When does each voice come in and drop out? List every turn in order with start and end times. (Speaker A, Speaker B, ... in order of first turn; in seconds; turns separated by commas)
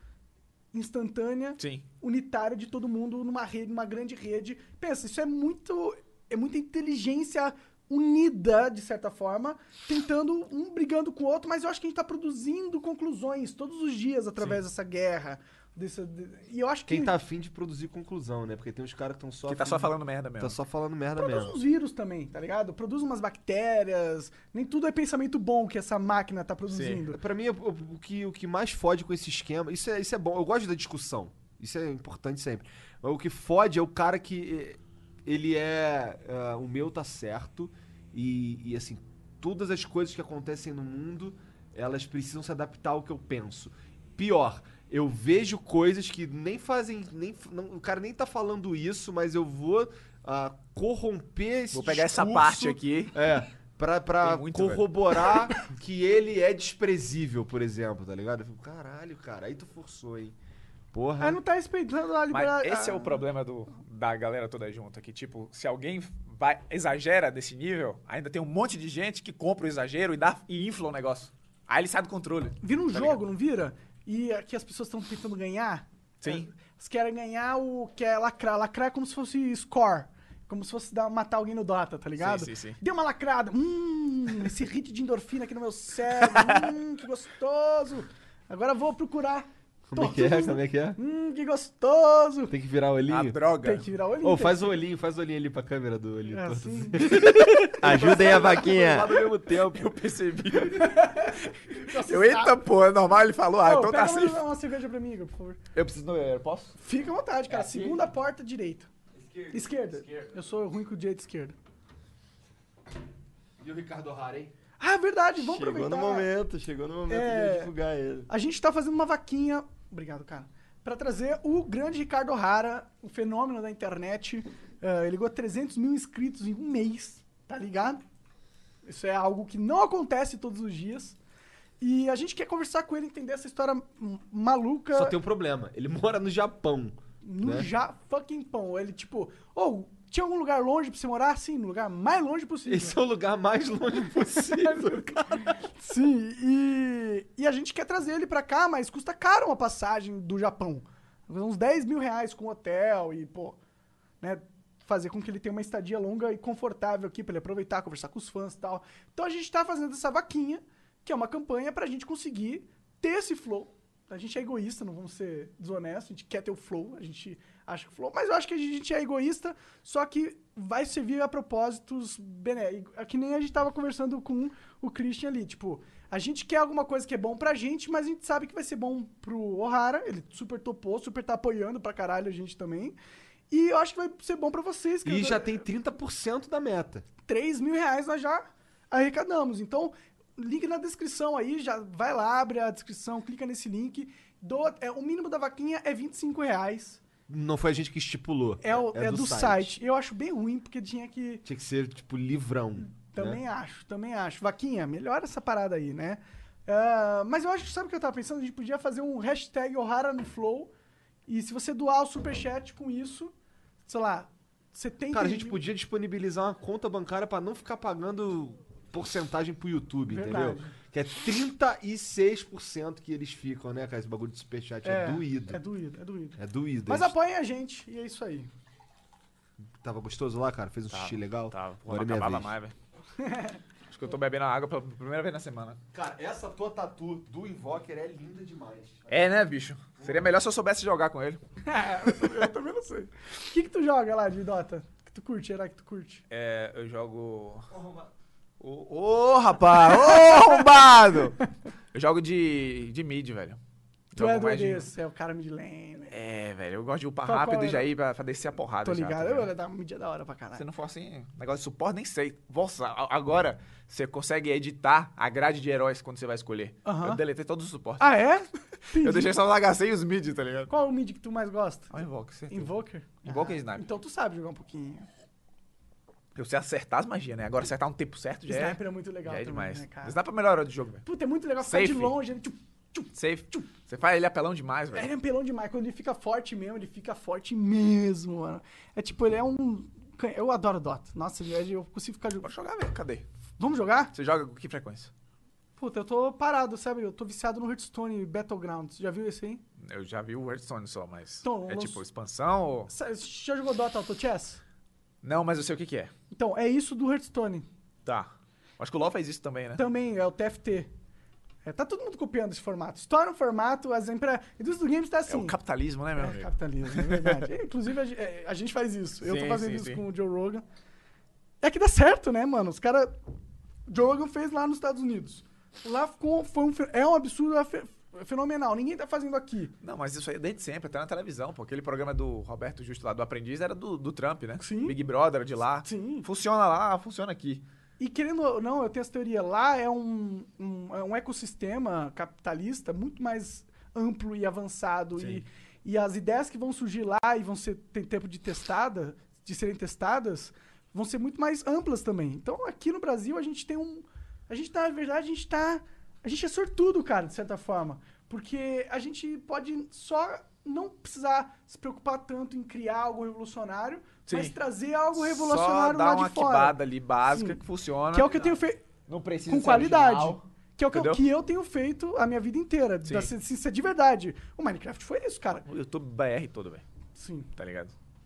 Speaker A: 0.7-17.1, Speaker B: 1.6-1.8, Speaker C: 16.9-21.6, Speaker B: 19.5-20.6, Speaker A: 21.2-27.2, Speaker B: 26.7-27.0, Speaker C: 27.1-60.3, Speaker B: 51.7-53.2, Speaker B: 54.2-54.9, Speaker C: 60.9-61.4, Speaker A: 61.2-63.2, Speaker B: 62.3-73.2, Speaker A: 72.6-92.5, Speaker B: 76.2-76.5, Speaker B: 82.2-82.8, Speaker B: 86.2-86.7, Speaker C: 89.9-91.0, Speaker C: 92.5-93.4, Speaker B: 93.1-93.8, Speaker A: 93.6-94.7, Speaker C: 94.2-99.9, Speaker A: 96.3-98.6, Speaker D: 97.1-99.2, Speaker B: 99.6-104.5, Speaker A: 100.7-102.6, Speaker A: 103.6-105.6, Speaker B: 105.7-106.8, Speaker A: 106.8-108.9, Speaker B: 107.5-108.0, Speaker A: 109.5-111.5, Speaker C: 113.6-114.5, Speaker A: 114.8-116.3, Speaker D: 115.4-118.3, Speaker A: 117.1-117.7, Speaker A: 118.3-128.0, Speaker A: 128.8-131.2, Speaker A: 131.8-135.2, Speaker C: 134.9-137.7, Speaker A: 137.2-143.0, Speaker C: 142.7-145.6, Speaker A: 144.2-153.6, Speaker A: 154.2-182.9, Speaker A: 183.5-185.5, Speaker C: 185.0-187.1, Speaker A: 187.3-197.0, Speaker C: 197.3-199.7, Speaker A: 198.6-201.4, Speaker C: 201.4-203.4, Speaker A: 203.1-210.7, Speaker A: 211.3-213.3, Speaker A: 213.8-215.6, Speaker C: 215.1-225.6, Speaker A: 220.1-220.7, Speaker A: 224.8-228.5, Speaker C: 226.4-227.1, Speaker C: 229.8-232.5, Speaker B: 230.9-232.7, Speaker A: 233.2-233.6, Speaker B: 233.9-235.8, Speaker C: 235.9-239.1, Speaker B: 239.1-241.4, Speaker C: 240.0-240.3, Speaker A: 241.7-246.2, Speaker B: 246.3-247.7, Speaker B: 248.6-253.6, Speaker A: 250.1-250.5, Speaker B: 254.1-254.9, Speaker A: 254.2-256.1, Speaker B: 256.1-259.5, Speaker A: 257.2-257.9, Speaker A: 258.8-260.6, Speaker B: 260.6-268.1, Speaker A: 266.8-267.2, Speaker A: 268.0-269.3, Speaker B: 269.0-270.7, Speaker A: 270.7-271.9, Speaker B: 271.9-272.7, Speaker A: 272.5-275.1, Speaker B: 273.2-273.8, Speaker B: 276.3-281.0, Speaker A: 278.5-280.2, Speaker A: 281.0-283.6, Speaker B: 281.6-282.2, Speaker B: 283.1-285.1, Speaker A: 284.9-292.5, Speaker B: 292.4-293.2, Speaker A: 293.6-294.1, Speaker B: 294.1-295.1, Speaker A: 295.8-299.6, Speaker B: 299.8-302.9, Speaker A: 301.4-302.0, Speaker A: 302.9-304.6, Speaker B: 305.2-306.1, Speaker A: 306.3-307.7, Speaker B: 308.1-309.8, Speaker A: 309.8-310.9, Speaker A: 311.6-315.6, Speaker B: 315.3-317.5, Speaker A: 316.2-320.6, Speaker B: 319.2-320.0, Speaker A: 321.6-323.1, Speaker A: 323.9-329.7, Speaker B: 329.8-337.6, Speaker A: 334.6-334.9, Speaker A: 335.8-336.3, Speaker A: 338.0-367.6, Speaker B: 364.3-364.5, Speaker B: 365.1-368.6, Speaker A: 368.1-368.8, Speaker B: 369.1-371.2, Speaker A: 369.5-375.6, Speaker B: 373.1-373.3, Speaker B: 375.6-376.8, Speaker A: 377.1-377.5, Speaker B: 377.6-377.9